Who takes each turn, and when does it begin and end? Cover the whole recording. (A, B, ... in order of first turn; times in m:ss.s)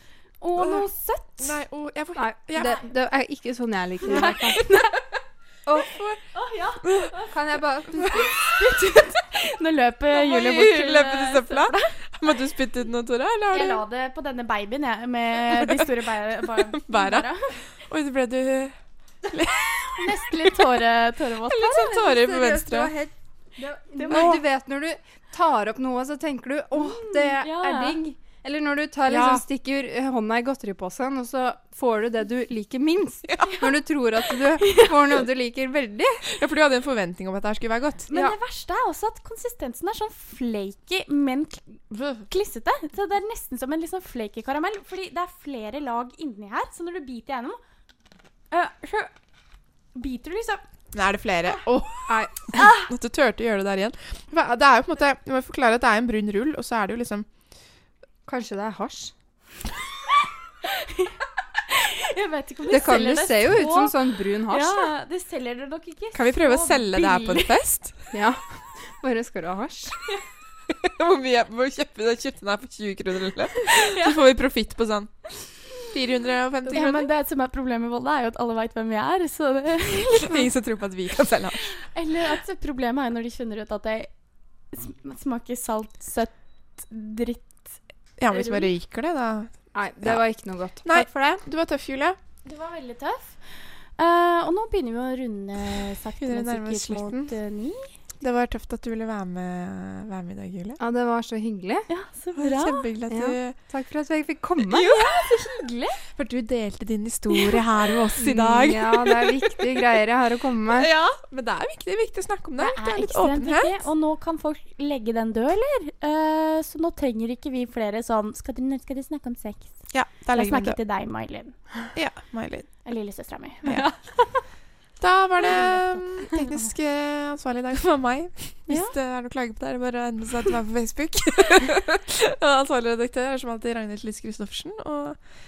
0:00.4-0:01.6 A
0:00.6-0:00.9 B
0:01.4-0:02.8 B
0:02.2-0:04.6 C
0:04.1-0:04.8 B
0:04.1-0:04.9 A
0:05.7-0:06.0 C
0:05.7-0:06.2 B
0:06.3-0:07.3 A
0:06.8-0:07.1 B
0:07.3-0:08.2 C
0:07.9-0:12.0 A
0:08.0-0:08.8 B
0:10.1-0:13.8 B
0:13.5-0:17.6 A
0:15.4-0:15.9 B
0:16.5-0:18.8 B
0:19.3-0:20.6 B
0:19.9-0:21.8 A
0:21.4-0:22.9 B
0:21.6-0:36.3 C
0:23.9-0:24.4 A
0:24.1-0:24.4 B
0:26.7-0:28.0 A
0:29.1-0:29.4 B
0:34.6-0:34.9 A
0:36.3-0:38.1 B
0:38.1-0:47.6 A
0:41.9-0:42.2 B
0:48.5-0:49.1 A
0:49.9-0:50.6 A
0:50.9-0:57.3 B
0:52.1-0:52.4 C
0:52.5-0:52.9 A
0:58.3-0:59.1 C
1:00.6-1:03.9 A
1:02.7-1:04.9 C
1:04.5-1:07.6 A
1:06.1-1:08.0 B
1:08.1-1:10.0 C
1:10.7-1:17.1 B
1:13.7-1:14.1 A
1:16.7-1:20.5 A
1:20.2-1:21.8 B
1:21.8-1:24.1 A
1:24.7-1:27.8 A
1:28.2-1:30.2 B
1:28.3-1:28.7 A
1:29.7-1:31.1 C
1:30.8-1:32.2 B
1:32.4-1:33.4 A
1:34.0-1:37.9 A
1:36.2-1:37.3 B
1:38.2-1:40.8 B
1:40.8-1:41.9 C
1:41.9-1:42.8 A
1:42.3-1:43.6 B
1:43.1-1:44.9 C
1:44.7-1:45.3 B
1:44.8-1:46.0 A
1:46.0-1:49.4 B
1:48.2-1:50.9 C
1:50.8-1:53.8 B
1:50.9-1:51.2 A
1:52.6-1:59.8 A
1:59.9-2:00.8 B
2:00.3-2:01.6 A
2:01.9-2:02.7 B
2:02.8-2:03.8 A
2:05.0-2:15.2 B
2:05.5-2:06.0 A
2:08.7-2:08.9 A